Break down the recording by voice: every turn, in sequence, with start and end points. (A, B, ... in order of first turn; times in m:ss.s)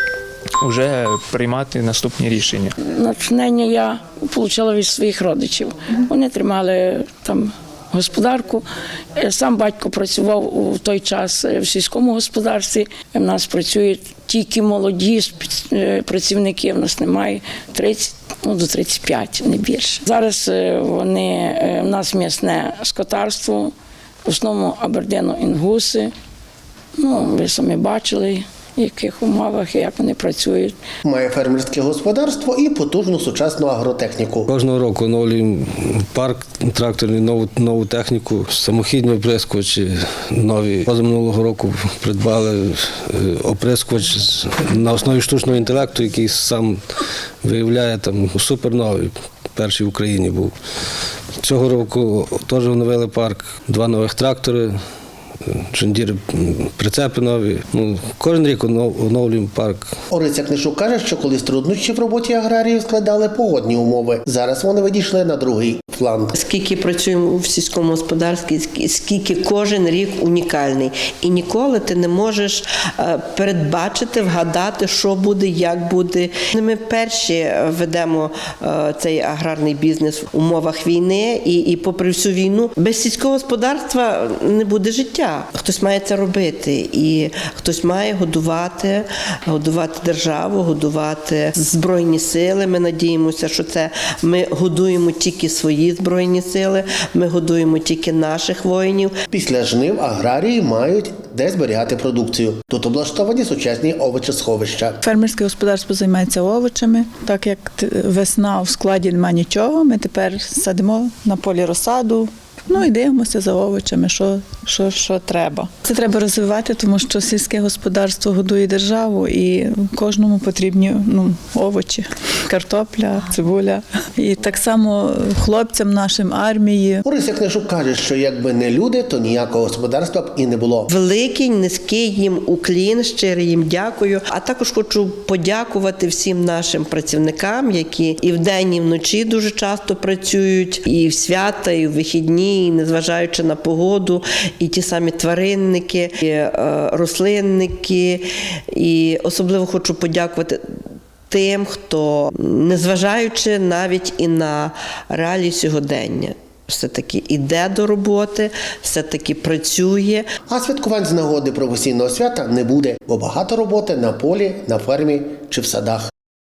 0:00.6-0:02.7 A
0:02.8-0:08.6 B
0:09.2-0:23.7 B
0:24.2-0:26.1 B
0:27.0-0:30.7 B
0:31.0-0:34.5 C
0:34.5-0:46.8 D
0:47.4-0:50.5 D
0:51.4-0:54.8 D
0:55.4-0:59.9 D
1:00.1-1:06.3 C
1:06.3-1:39.1 E
1:39.3-1:45.0 C
1:45.0-2:07.0 F
2:07.0-2:10.9 C
2:10.9-2:30.6 E
2:31.3-2:40.3 E
2:40.5-2:46.1 C